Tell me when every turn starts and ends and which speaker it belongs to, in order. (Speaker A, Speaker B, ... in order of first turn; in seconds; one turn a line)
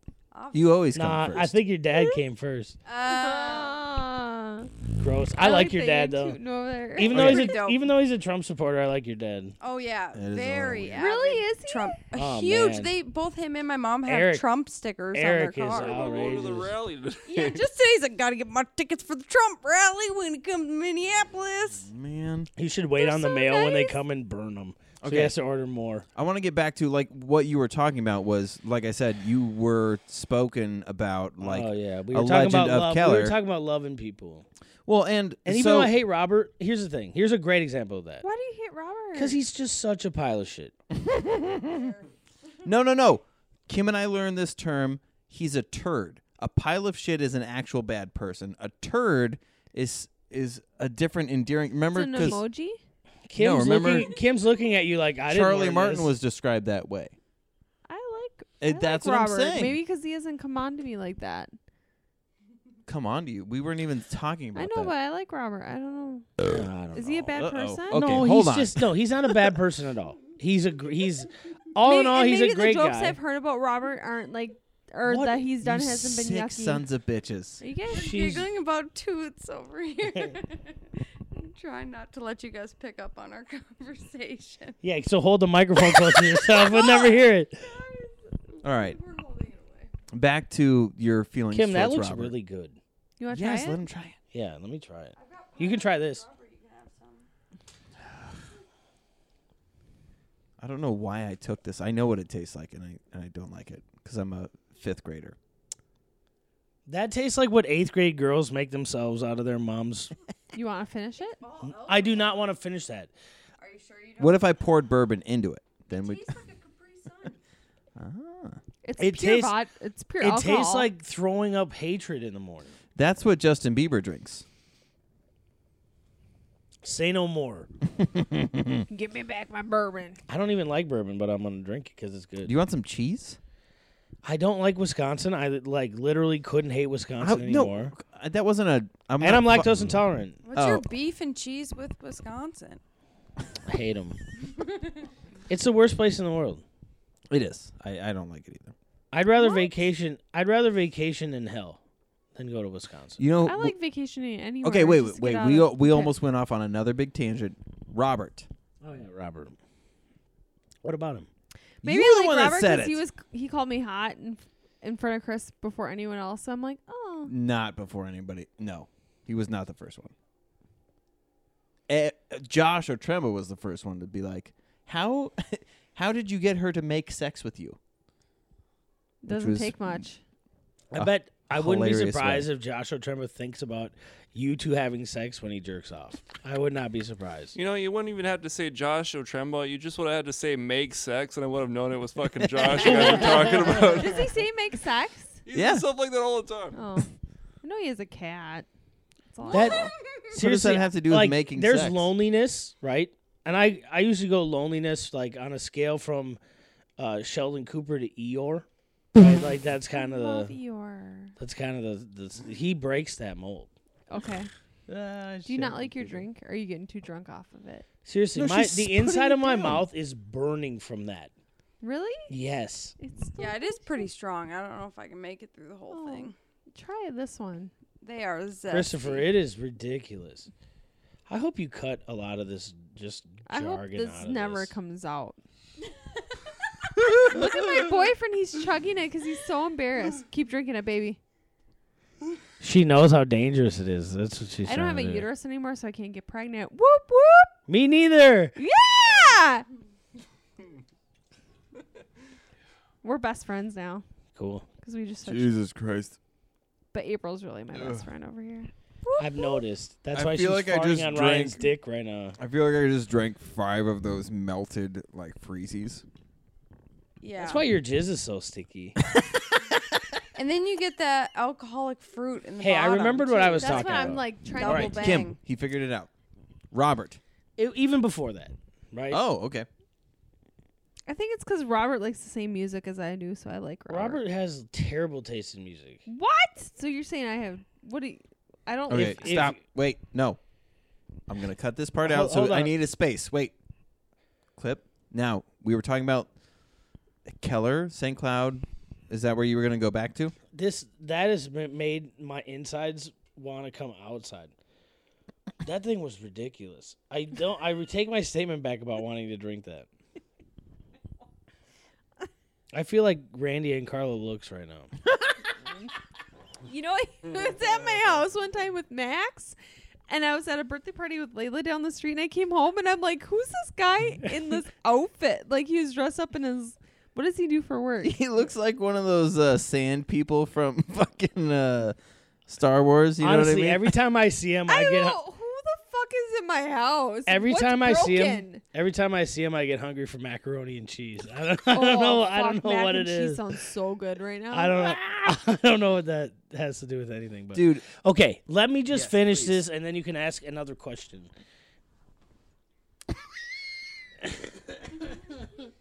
Speaker A: 0.3-0.7
Speaker B: 0.5-1.6
Speaker C: 0.9-2.8
Speaker A: 2.9-3.8
Speaker D: 3.0-4.7
Speaker C: 5.0-6.4
Speaker D: 5.4-7.5
Speaker C: 7.0-9.6
Speaker A: 7.1-7.8
Speaker B: 7.1-7.5
Speaker A: 9.6-16.5
Speaker B: 10.1-11.1
Speaker D: 11.0-12.0
Speaker C: 12.1-12.9
Speaker C: 14.1-14.4
Speaker C: 15.1-16.7
Speaker E: 15.7-17.6
Speaker A: 17.3-21.9
Speaker B: 21.8-22.5
Speaker C: 22.6-26.1
Speaker D: 23.0-24.0
Speaker B: 25.0-25.3
Speaker B: 26.1-33.4
Speaker C: 31.4-34.5
Speaker B: 34.9-35.9
Speaker C: 35.5-38.2
Speaker D: 38.2-39.4
Speaker C: 39.1-40.7
Speaker B: 40.9-41.9
Speaker B: 42.6-52.4
Speaker D: 51.9-52.8
Speaker C: 53.3-56.1
Speaker B: 53.4-54.1
Speaker B: 55.3-57.1
Speaker D: 57.9-61.5
Speaker B: 58.6-59.8
Speaker B: 62.9-64.9
Speaker D: 64.5-66.3
Speaker C: 66.4-73.2
Speaker D: 66.9-68.2
Speaker B: 67.3-68.9
Speaker D: 71.8-76.8
Speaker C: 75.0-75.5
Speaker B: 75.6-77.6
Speaker D: 77.6-78.1
Speaker A: 77.9-84.8
Speaker C: 77.9-78.5
Speaker C: 84.8-87.6
Speaker A: 85.8-89.9
Speaker B: 88.6-89.0
Speaker B: 90.1-92.3
Speaker C: 91.5-92.8
Speaker D: 93.2-93.8
Speaker B: 93.3-94.2
Speaker C: 94.3-96.2
Speaker A: 95.2-97.3
Speaker B: 100.6-105.3
Speaker C: 106.9-110.1
Speaker D: 110.5-111.4
Speaker A: 111.4-112.5
Speaker C: 111.7-113.1
Speaker A: 113.6-114.6
Speaker B: 114.2-116.4
Speaker A: 115.9-117.4
Speaker B: 118.0-118.6
Speaker D: 118.8-120.9
Speaker C: 119.0-119.5
Speaker C: 120.2-122.7
Speaker B: 123.0-124.4
Speaker C: 126.8-127.7
Speaker B: 128.0-128.8
Speaker D: 128.9-130.2
Speaker C: 130.3-132.5
Speaker B: 132.4-133.4
Speaker C: 134.2-137.9
Speaker B: 137.2-140.0
Speaker C: 139.2-140.4
Speaker A: 140.4-142.8
Speaker B: 140.5-140.9
Speaker C: 143.7-144.2
Speaker C: 145.5-146.6
Speaker B: 147.3-148.7
Speaker C: 149.1-151.8
Speaker D: 149.3-149.7
Speaker C: 152.3-153.2
Speaker B: 153.2-153.8
Speaker D: 153.4-156.1
Speaker B: 154.6-158.5
Speaker C: 158.8-159.6
Speaker C: 160.8-161.3
Speaker B: 161.8-163.0
Speaker D: 161.8-167.3
Speaker B: 167.2-170.1
Speaker B: 171.9-177.8
Speaker D: 179.2-180.2
Speaker B: 179.3-180.0
Speaker C: 180.9-187.5
Speaker B: 180.9-182.5
Speaker E: 187.5-194.3
Speaker B: 192.4-193.2
Speaker D: 192.8-195.4
Speaker C: 192.8-193.5
Speaker E: 195.4-196.8
Speaker B: 195.5-195.8
Speaker D: 196.7-197.1
Speaker D: 197.6-198.7
Speaker D: 199.3-199.9
Speaker A: 199.5-200.2
Speaker C: 199.5-206.4
Speaker B: 200.3-202.1
Speaker C: 207.0-210.5
Speaker D: 209.9-211.3
Speaker C: 211.4-213.7
Speaker D: 214.1-214.5
Speaker C: 214.9-216.2
Speaker D: 215.4-217.9
Speaker C: 218.1-221.3
Speaker B: 218.3-219.8
Speaker D: 219.5-219.8
Speaker D: 221.8-222.3
Speaker C: 222.3-222.9
Speaker D: 223.0-224.1
Speaker A: 223.4-226.3
Speaker D: 225.9-227.7
Speaker A: 228.0-229.3
Speaker C: 228.7-230.5
Speaker C: 231.3-234.7
Speaker D: 233.5-235.4
Speaker D: 237.0-241.2
Speaker C: 242.6-245.3
Speaker D: 244.6-247.5
Speaker C: 247.7-248.6
Speaker D: 248.6-249.7
Speaker D: 253.0-254.0
Speaker C: 254.3-254.7
Speaker D: 254.8-255.5
Speaker B: 255.2-256.2
Speaker D: 256.9-259.6
Speaker B: 257.7-258.0
Speaker C: 259.2-262.4
Speaker B: 260.1-261.7
Speaker B: 262.4-266.0
Speaker A: 267.2-267.6
Speaker C: 267.4-269.0
Speaker B: 269.1-269.8
Speaker A: 270.3-275.4
Speaker C: 272.6-275.0
Speaker D: 273.6-275.2
Speaker B: 274.9-276.1
Speaker B: 276.7-277.2
Speaker C: 277.6-279.2
Speaker B: 279.1-279.7
Speaker D: 281.1-284.2
Speaker C: 283.9-286.0
Speaker D: 286.1-289.4
Speaker B: 288.9-290.4
Speaker C: 288.9-289.6
Speaker B: 291.3-293.5
Speaker C: 292.0-292.7
Speaker B: 294.6-296.3
Speaker B: 297.3-300.3
Speaker C: 300.5-304.5
Speaker C: 305.6-309.9
Speaker C: 312.7-314.9
Speaker D: 316.6-319.6
Speaker D: 320.1-328.2
Speaker B: 328.0-331.9
Speaker B: 332.5-333.9
Speaker C: 333.2-335.2
Speaker D: 334.7-338.6
Speaker C: 337.3-343.4
Speaker D: 341.7-345.0
Speaker C: 344.5-351.3
Speaker B: 347.5-347.9
Speaker B: 348.9-349.6